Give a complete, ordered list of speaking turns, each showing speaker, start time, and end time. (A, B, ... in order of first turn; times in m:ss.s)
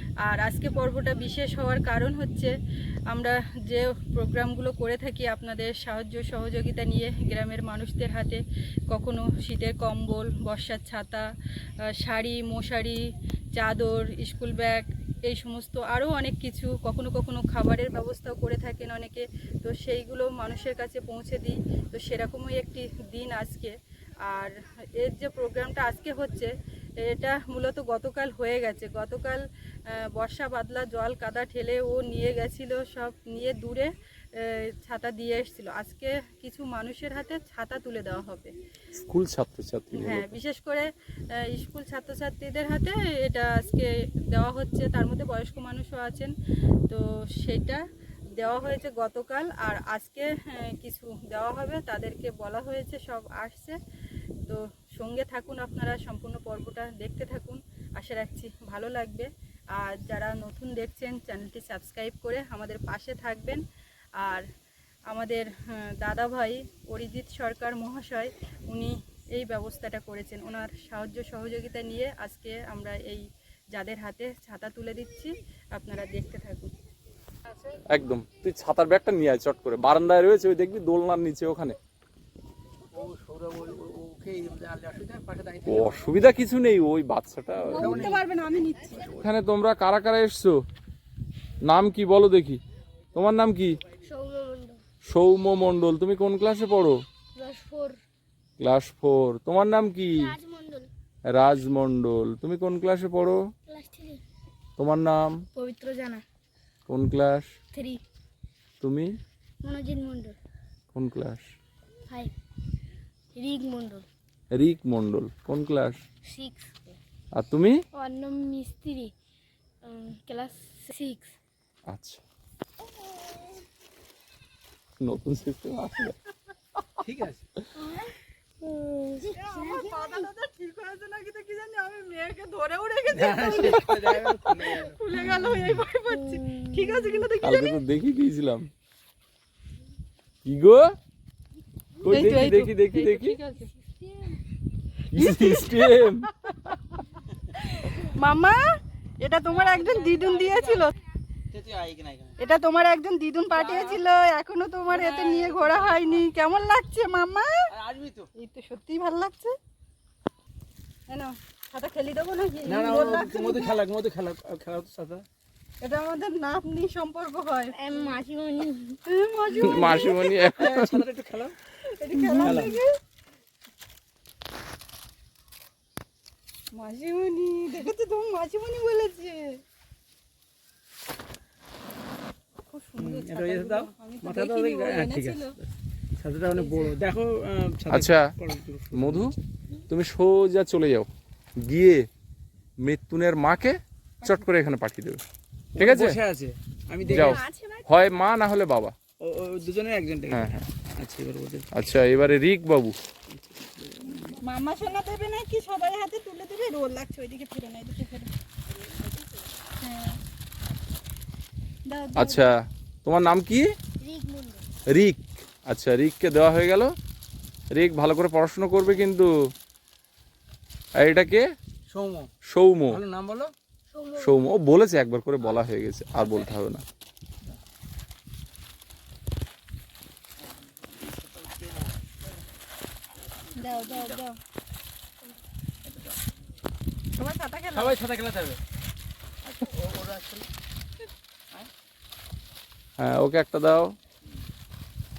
0:00.3-0:02.5 A
0:03.1-0:11.3 A
0:11.9-0:13.0 A
0:13.6-0:23.7 A
0:24.3-0:29.4 A
0:30.0-0:38.5 A
0:39.0-0:40.4 B
0:40.0-0:46.3 A
0:46.9-0:47.8 A
0:48.4-0:53.8 A
0:54.5-1:03.6 A
1:05.1-1:16.7 A
1:17.9-1:21.8 B
1:22.9-1:26.0 C
1:25.7-1:28.2 B
1:27.7-1:29.1 A
1:27.8-1:28.2 C
1:28.9-1:29.2 C
1:29.2-1:30.6 B
1:31.7-1:32.6 B
1:33.2-1:33.8 B
1:34.0-1:34.8 D
1:35.0-1:37.0 B
1:37.4-1:38.0 D
1:38.6-1:40.4 B
1:40.2-1:40.9 D
1:41.3-1:43.5 B
1:43.7-1:44.2 D
1:44.8-1:45.4 B
1:45.6-1:46.2 D
1:46.9-1:47.6 B
1:47.7-1:48.0 D
1:48.8-1:49.2 B
1:49.6-1:50.4 D
1:50.9-1:51.4 B
1:52.1-1:52.3 D
1:53.3-1:54.0 D
1:54.5-1:56.0 B
1:56.2-1:57.0 D
1:57.4-1:57.8 B
1:57.9-1:59.1 D
1:59.8-2:01.3 D
2:01.9-2:02.2 B
2:05.0-2:06.2 B
2:07.0-2:07.4 C
2:07.8-2:10.2 D
2:09.4-2:17.8 A
2:13.1-2:15.0 C
2:16.4-2:17.0 D
2:17.4-2:18.7 B
2:20.5-2:20.9 B
2:22.0-2:23.7 A
2:22.0-2:23.4 B
2:25.1-2:26.3 B
2:25.1-2:26.7 A
2:27.6-2:28.6 A
2:29.2-2:30.9 A
2:29.5-2:30.7 C
2:31.5-2:32.3 C
2:32.4-2:37.6 A
2:33.5-2:34.0 C
2:34.9-2:36.2 C
2:37.7-2:38.3 C
2:38.4-2:39.6 A
2:41.1-2:43.7 A
2:42.7-2:45.2 C
2:45.8-2:48.1 A
2:47.8-2:49.0 D
2:49.1-2:50.4 A
2:49.6-2:51.0 B
2:50.6-2:51.6 C
2:51.9-2:52.9 A
2:52.2-2:52.7 C
2:52.4-2:52.7 B
2:56.7-2:59.6 A
3:02.6-3:05.6 A
3:03.0-3:05.6 C
3:06.2-3:09.4 C
3:06.6-3:06.9 A
3:07.9-3:08.3 B
3:08.9-3:09.4 B
3:09.9-3:11.1 B
3:11.6-3:12.1 B
3:12.8-3:15.2 B
3:15.8-3:17.4 C
3:15.8-3:16.2 B
3:17.1-3:18.9 B
3:17.1-3:17.8 A
3:19.2-3:21.7 C
3:20.3-3:20.7 B
3:21.7-3:23.0 B
3:23.3-3:24.4 C
3:24.4-3:28.3 A
3:29.8-3:30.2 A
3:31.9-3:32.5 A
3:32.2-3:33.7 B
3:34.0-3:34.6 D
3:34.9-3:36.9 B
3:37.7-3:39.3 B
3:41.0-3:41.4 B
3:41.9-3:42.3 C
3:42.4-3:43.0 B
3:42.9-3:43.5 C
3:43.9-3:44.5 D
3:44.2-3:46.8 B
3:53.6-3:54.4 A
3:55.8-3:56.2 C
3:57.2-3:58.0 A
3:57.8-3:58.6 C
3:59.4-4:00.5 C
4:03.0-4:04.0 B